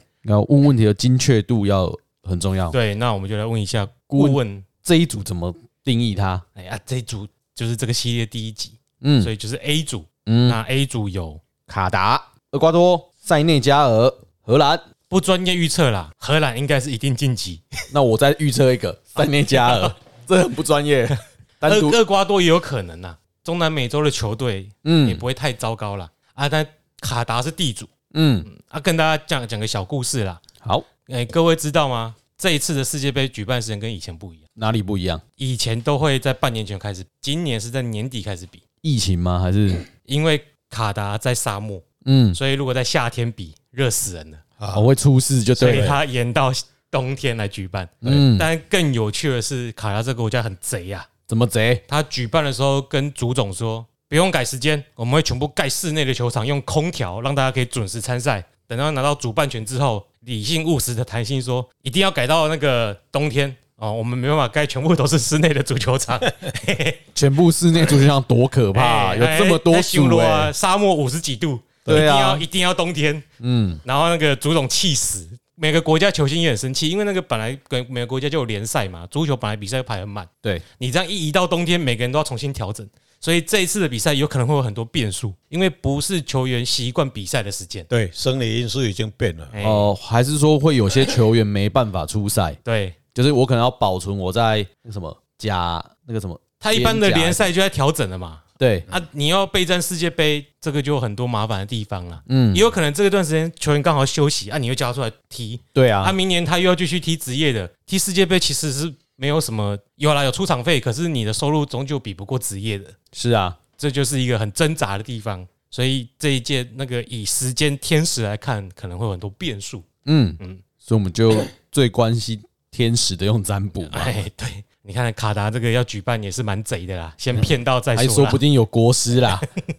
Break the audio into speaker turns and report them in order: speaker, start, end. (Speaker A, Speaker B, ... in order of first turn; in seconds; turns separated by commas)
Speaker A: 0.2-2.8, Speaker B: 2.7-4.7, Speaker A: 4.1-6.4, Speaker B: 6.6-11.4, Speaker A: 9.0-9.3, Speaker A: 10.2-10.6, Speaker A: 11.7-14.8, Speaker B: 15.1-17.6, Speaker A: 17.9-22.0, Speaker B: 19.2-19.9, Speaker B: 21.6-27.9, Speaker A: 24.8-25.2, Speaker A: 28.1-28.5, Speaker B: 28.4-30.4, Speaker B: 31.1-34.4, Speaker A: 34.6-35.2, Speaker B: 35.4-38.6, Speaker A: 38.8-39.9, Speaker B: 40.0-44.4, Speaker A: 42.0-42.4, Speaker C: 44.6-44.9, Speaker A: 44.7-45.9, Speaker B: 45.6-51.1, Speaker C: 45.6-46.0, Speaker A: 48.0-48.5, Speaker A: 51.3-51.8, Speaker B: 51.9-67.0, Speaker A: 67.1-70.5, Speaker B: 68.7-73.2, Speaker A: 71.8-72.5, Speaker A: 73.4-73.8, Speaker B: 73.8-87.9, Speaker C: 87.9-89.6, Speaker B: 89.5-89.9, Speaker A: 89.6-92.6, Speaker B: 92.6-93.0, Speaker A: 93.1-97.5, Speaker B: 96.6-113.0, Speaker A: 98.6-98.8, Speaker A: 102.3-102.7, Speaker A: 105.8-106.2, Speaker A: 113.1-113.6, Speaker B: 113.8-119.9, Speaker A: 120.1-124.2, Speaker B: 123.9-128.4, Speaker A: 127.4-129.4